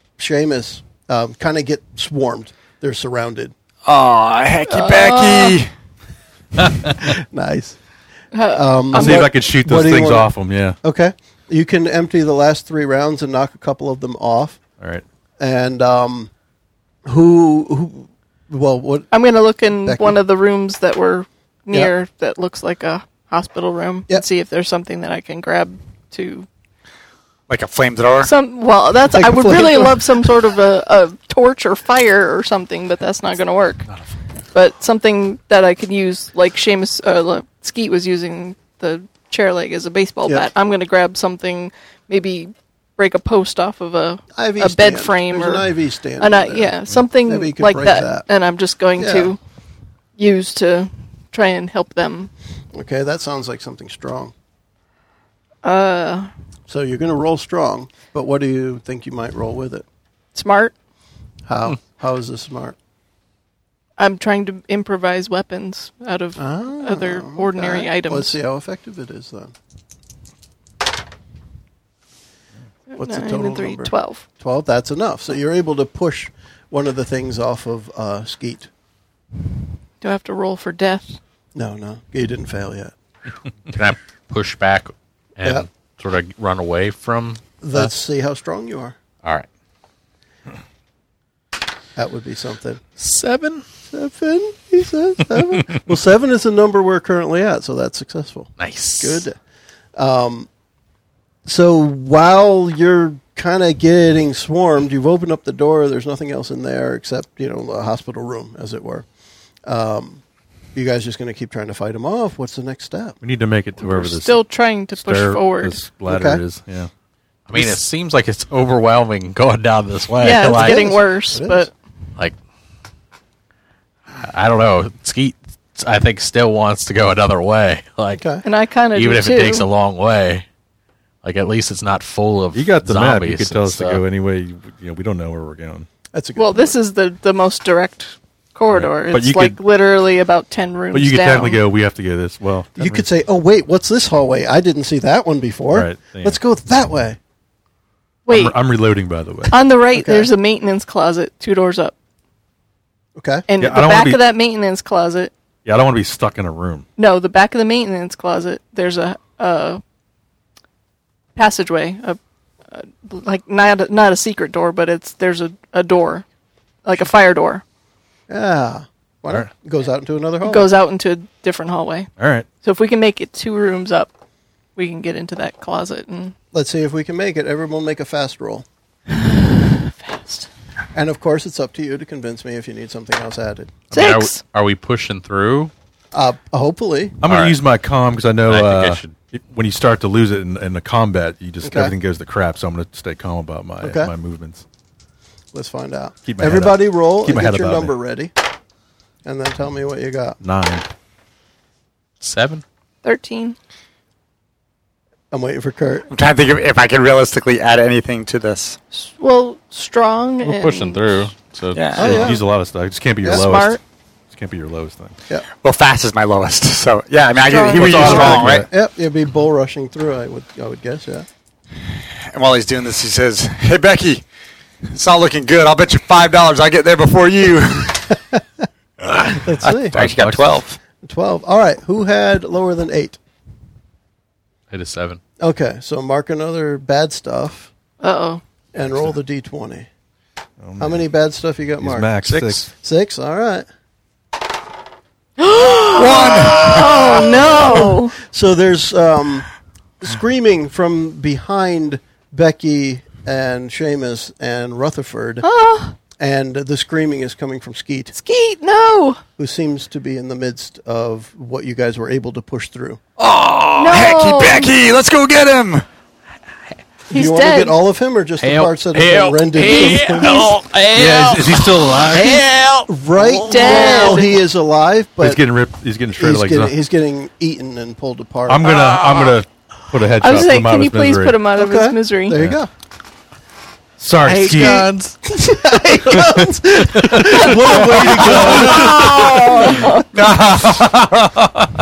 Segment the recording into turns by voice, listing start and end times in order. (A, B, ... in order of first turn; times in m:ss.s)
0:00.2-0:03.5 A
0:03.8-0:05.7 B
0:04.7-0:05.6 C
0:06.9-0:07.8 A
0:08.3-0:09.3 C
0:08.4-0:14.6 A
0:08.9-0:10.8 D
0:15.4-0:16.3 A
0:17.1-0:19.2 A
0:19.1-0:26.5 C
0:19.7-0:20.2 A
0:27.5-0:28.3 B
0:28.2-0:33.8 C
0:29.1-0:30.3 A
0:34.5-0:45.7 C
0:44.4-0:48.3 A
0:46.2-0:49.4 C
0:49.0-0:49.3 A
0:50.2-0:52.3 C
0:52.7-0:54.3 A
0:55.6-0:56.3 C
0:56.7-0:59.8 A
1:00.4-1:00.7 C
1:01.5-1:02.8 A
1:04.0-1:08.4 C
1:06.4-1:09.5 A
1:12.9-1:14.2 C
1:13.0-1:18.7 A
1:20.0-1:21.2 C
1:21.6-1:22.9 A
1:23.7-1:27.9 E
1:27.6-1:29.0 A
1:32.0-1:32.8 A
1:33.0-1:33.6 E
1:33.9-1:39.4 A
1:38.6-1:39.2 E
1:40.0-1:40.5 A
1:41.5-1:49.1 A
1:49.7-1:50.2 A
1:50.8-1:53.2 A
1:53.2-1:54.4 D
1:53.8-1:55.8 C
1:54.9-1:56.9 D
1:56.1-1:56.4 A
1:57.5-2:00.9 E
2:00.2-2:01.7 C
2:00.4-2:01.7 A
2:04.2-2:08.3 E
2:08.1-2:08.4 A
2:08.4-2:09.7 C
2:08.9-2:10.4 E
2:11.2-2:14.0 E
2:12.5-2:15.9 D
2:16.1-2:16.7 A
2:16.4-2:21.6 C
2:18.7-2:19.6 D
2:20.9-2:23.1 D
2:22.8-2:27.2 A
2:25.7-2:26.4 D
2:28.3-2:28.6 C
2:28.3-2:29.6 D
2:29.5-2:31.9 C
2:29.9-2:30.3 A
2:33.2-2:33.5 A
2:33.5-2:35.3 C
2:33.6-2:34.2 D
2:35.6-2:36.9 D
2:37.0-2:39.8 C
2:41.4-2:42.2 C
2:42.7-2:46.2 C
2:46.8-2:47.6 C
2:48.3-2:50.7 A
2:50.4-2:52.1 C
2:52.2-2:52.5 D
2:52.6-2:54.1 C
2:54.8-2:56.4 C
2:56.5-2:58.7 A
2:59.1-3:00.5 C
3:00.9-3:03.7 A
3:03.9-3:04.4 C
3:03.9-3:05.7 E
3:06.1-3:07.2 A
3:07.2-3:14.6 D
3:07.2-3:07.6 E
3:08.5-3:09.1 E
3:11.6-3:11.9 A
3:13.8-3:14.1 A
3:15.5-3:18.3 A
3:16.3-3:17.9 D
3:19.2-3:20.4 A
3:20.4-3:20.9 D
3:22.2-3:22.6 E
3:23.0-3:23.6 C
3:25.3-3:26.1 A
3:26.1-3:28.8 B
3:28.9-3:31.3 C
3:30.4-3:31.9 E
3:31.7-3:32.3 B
3:32.0-3:32.4 A
3:32.0-3:35.2 D
3:33.3-3:33.8 C
3:35.6-3:38.7 B
3:37.5-3:38.2 C
3:37.5-3:41.3 A
3:37.7-3:38.7 D
3:42.3-3:44.2 B
3:44.9-3:48.2 B
3:49.1-3:50.8 B
3:49.4-3:50.0 A
3:49.9-3:50.6 D
3:51.0-3:53.2 A
3:54.7-3:55.2 E
3:55.4-3:57.7 A
3:58.0-3:58.4 C
3:58.7-3:59.9 A
3:58.8-3:59.1 D
4:00.6-4:01.1 D
4:00.8-4:02.2 A
4:01.8-4:02.7 D
4:02.3-4:02.6 E
4:02.8-4:03.7 A
4:05.4-4:08.2 C
4:05.8-4:07.8 B
4:07.4-4:09.5 A
4:10.0-4:15.5 A
4:15.4-4:16.0 C
4:16.2-4:18.1 A
4:18.1-4:19.2 C
4:19.4-4:23.0 A
4:23.2-4:25.8 B
4:23.8-4:24.7 C
4:27.1-4:30.5 A
4:27.1-4:27.8 C
4:28.4-4:32.9 E
4:29.8-4:30.5 C
4:30.9-4:32.5 D
4:32.9-4:35.4 A
4:33.2-4:34.4 C
4:33.5-4:33.8 E
4:35.2-4:36.7 D
4:36.2-4:38.7 A
4:38.5-4:41.5 D
4:38.7-4:39.3 E
4:40.2-4:42.4 C
4:41.6-4:42.7 A
4:42.3-4:42.6 D
4:44.0-4:44.9 D
4:44.3-4:45.1 E
4:44.3-4:44.9 C
4:45.3-4:49.8 A
4:46.1-4:48.8 D
4:47.9-4:49.6 E
4:48.8-4:51.4 B
4:49.0-4:50.1 C